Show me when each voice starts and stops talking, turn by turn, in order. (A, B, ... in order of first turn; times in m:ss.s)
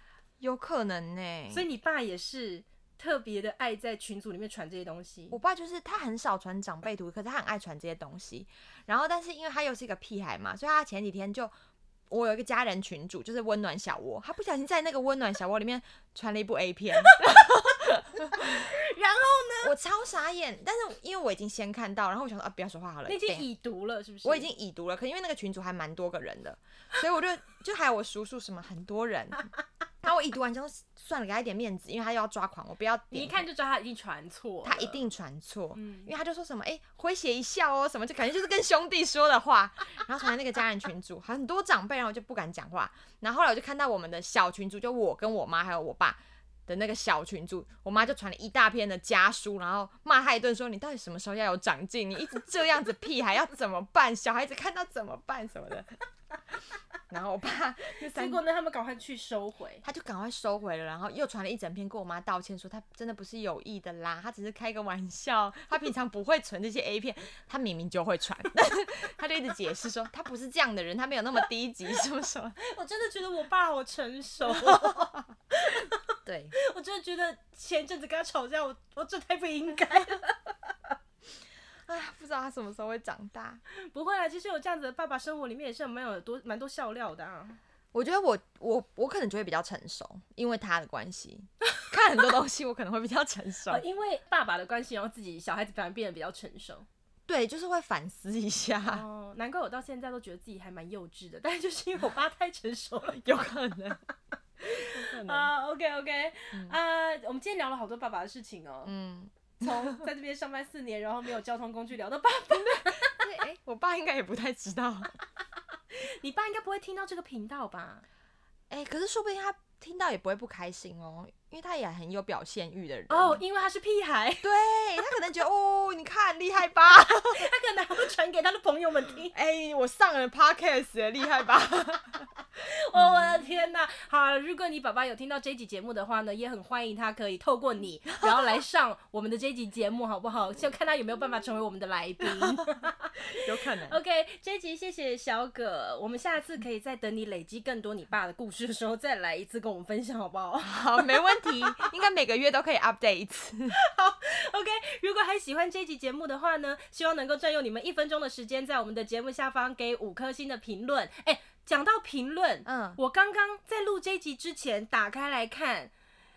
0:00.4-0:01.7 A
0:01.5-0:05.4 B
0:05.3-0:11.5 A
0:12.1-0:18.7 A
0:18.3-0:19.7 B
0:19.6-0:23.4 A
0:23.1-0:24.5 B
0:24.2-0:29.5 A
0:30.0-0:33.4 A
0:33.1-0:35.0 B
0:34.6-0:56.0 A
0:35.7-0:36.1 B
0:56.5-0:58.4 A
0:58.1-0:59.8 B
0:59.8-1:12.6 A
1:12.6-1:16.0 B
1:14.5-1:15.1 A
1:16.2-1:16.5 A
1:16.6-1:20.5 B
1:21.9-1:23.6 A
1:23.8-1:27.6 B
1:27.9-1:33.8 A
1:33.7-1:36.9 B
1:37.3-1:39.0 A
1:38.8-1:43.2 B
1:43.1-1:44.0 A
1:44.6-1:48.9 B
1:44.7-1:45.5 A
1:46.5-1:46.8 A
1:48.8-1:50.1 A
1:49.6-1:53.2 B
1:52.6-1:55.1 A
1:55.9-1:58.0 B
1:58.7-2:03.4 A
2:03.1-2:04.5 B
2:04.4-2:07.5 A
2:07.0-2:09.3 B
2:09.3-2:12.3 A
2:12.6-2:31.9 B
2:12.9-2:13.4 A
2:18.2-2:18.6 A
2:22.4-2:22.7 A
2:23.3-2:24.0 A
2:30.6-2:33.8 A
2:33.7-2:45.9 B
2:42.6-2:43.0 A